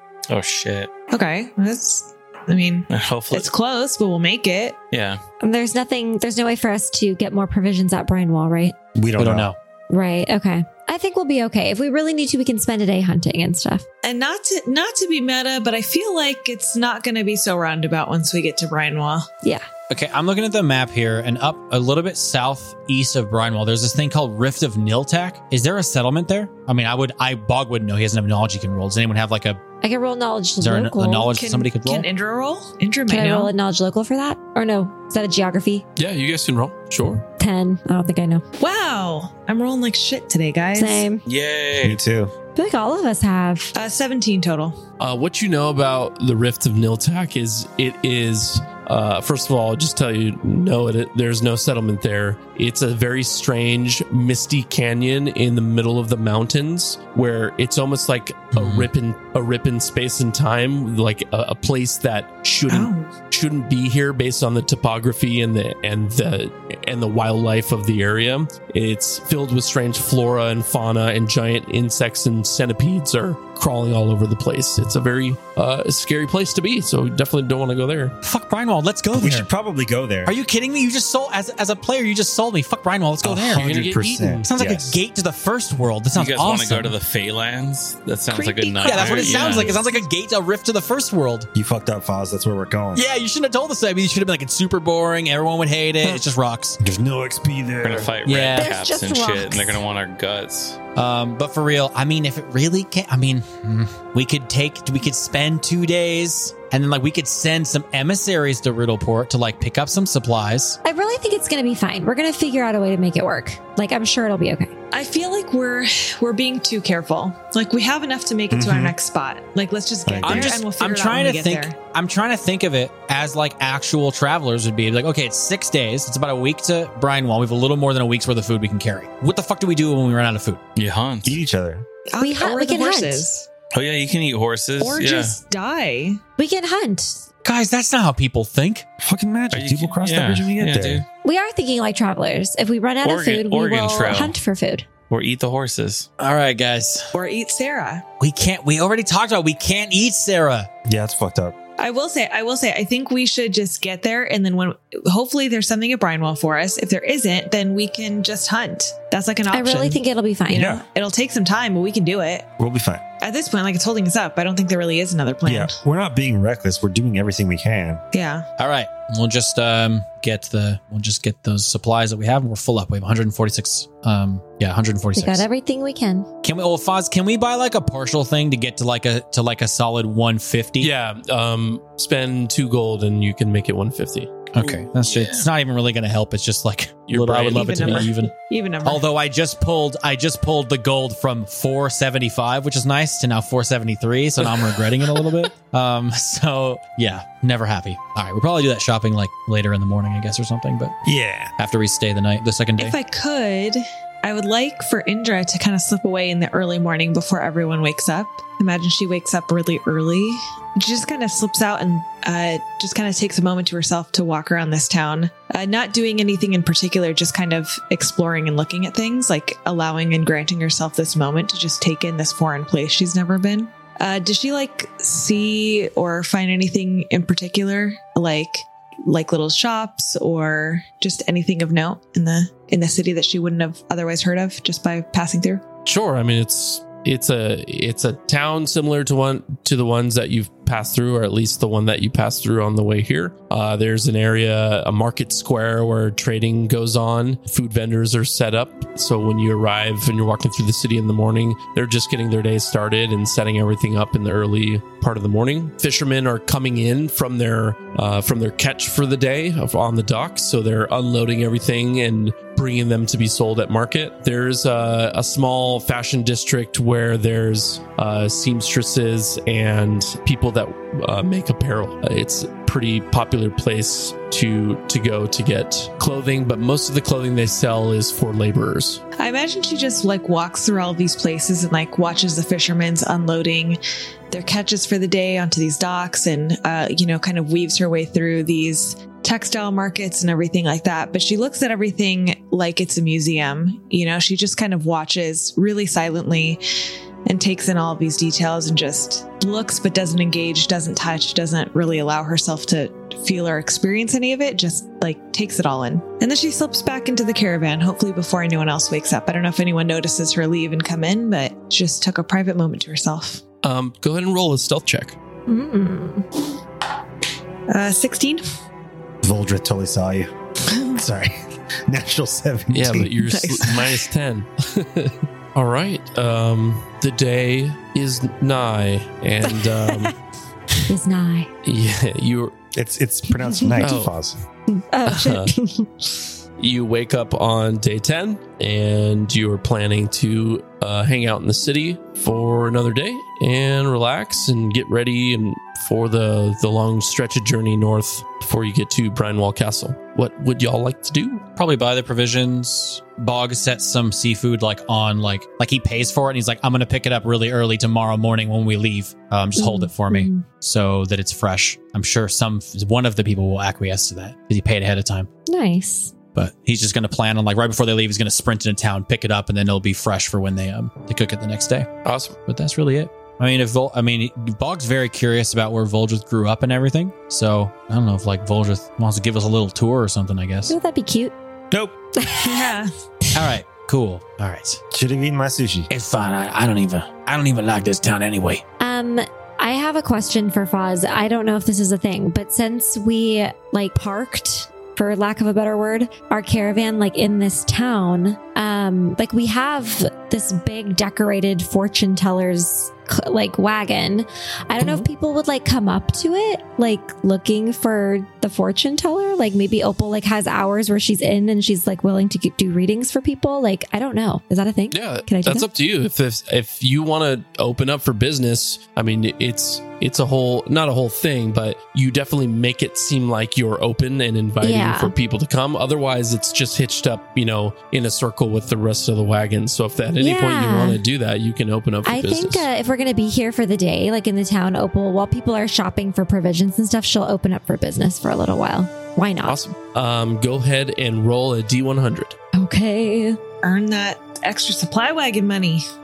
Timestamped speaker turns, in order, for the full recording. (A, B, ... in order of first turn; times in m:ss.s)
0:00.3-0:00.9 A
0:01.1-0:04.9 B
0:02.9-0:03.5 A
0:04.9-0:05.2 A
0:05.4-0:08.8 C
0:09.0-0:09.5 D
0:09.2-0:09.6 E
0:09.9-0:13.9 C
0:14.0-0:19.3 B
0:19.9-0:29.6 E
0:29.8-0:31.3 C
0:30.6-0:32.1 E
0:31.3-0:33.5 B
0:33.1-0:35.9 C
0:36.0-0:37.2 F
0:37.4-0:38.4 C
0:38.6-0:41.1 B
0:40.8-0:41.2 C
0:41.2-0:42.0 A
0:41.8-0:42.3 D
0:42.6-0:43.7 C
0:43.8-0:44.8 B
0:45.0-1:18.2 F
0:58.6-0:58.9 E
1:02.7-1:03.1 B
1:18.2-1:19.5 E
1:19.1-1:20.4 D
1:20.3-1:23.7 E
1:23.2-1:25.0 D
1:23.5-1:24.5 F
1:24.5-1:27.0 E
1:26.1-1:29.9 A
1:28.3-1:30.0 B
1:28.8-1:31.5 E
1:31.5-1:33.1 D
1:33.0-1:36.8 E
1:36.8-1:38.1 D
1:37.8-1:40.8 A
1:38.3-1:38.7 E
1:38.5-1:39.8 C
1:41.0-1:50.8 E
1:50.8-1:54.7 C
1:54.9-2:01.8 B
1:58.5-1:59.0 D
2:00.1-2:00.6 D
2:00.2-2:10.6 E
2:10.8-2:11.4 A
2:11.2-2:11.9 D
2:12.1-2:13.5 B
2:12.2-2:13.3 C
2:13.7-2:15.4 A
2:14.8-2:16.2 B
2:16.4-2:17.2 C
2:17.4-2:18.8 E
2:19.0-2:21.0 D
2:19.5-2:21.1 A
2:21.2-2:24.9 C
2:23.0-2:24.4 A
2:25.1-2:26.1 A
2:26.2-2:27.1 E
2:27.1-2:28.0 B
2:28.2-2:30.7 E
2:30.9-2:31.6 D
2:31.8-2:40.0 B
2:39.5-2:40.8 C
2:40.5-2:40.8 D
2:40.7-2:42.5 B
2:42.6-2:43.0 D
2:43.2-2:45.8 B
2:45.4-2:48.0 D
2:48.1-2:48.5 B
2:48.6-2:55.5 E
2:55.2-2:56.3 C
2:56.4-3:00.9 E
3:00.8-3:04.4 F
3:04.5-3:21.0 E
3:04.6-3:05.5 A
3:07.1-3:08.1 F
3:07.5-3:09.0 B
3:14.4-3:14.8 F
3:21.0-3:21.5 D
3:21.6-3:23.0 E
3:22.8-3:55.6 B
3:55.8-4:39.0 F
4:39.2-4:43.8 B
4:44.3-4:56.6 B
4:57.3-5:13.4 B
5:13.6-5:15.2 F
5:15.5-5:16.3 C
5:17.7-5:18.4 B
5:19.2-5:20.3 D
5:20.9-5:23.1 D
5:22.7-5:30.2 F
5:23.3-5:24.1 B
5:29.5-5:30.1 C
5:30.9-5:31.5 C
5:31.6-5:32.6 F
5:32.7-5:34.4 D
5:33.8-5:34.2 F
5:34.7-5:36.3 C
5:35.1-5:35.5 F
5:36.6-5:51.4 F
5:51.6-6:05.3 E
5:59.6-6:00.4 C
6:05.5-6:06.1 C
6:06.4-6:11.9 E
6:12.0-6:12.4 F
6:12.5-6:20.8 E
6:20.7-6:21.3 C
6:22.2-6:23.5 C
6:22.4-6:22.9 B
6:23.3-6:24.8 E
6:24.9-6:25.9 D
6:25.9-6:28.6 G
6:28.8-6:55.7 C
6:44.8-6:45.1 F
6:54.9-7:12.7 F
7:04.6-7:05.1 C
7:10.2-7:11.0 C
7:12.0-7:19.6 C
7:19.4-7:22.4 F
7:22.5-7:23.4 C
7:23.6-7:25.8 B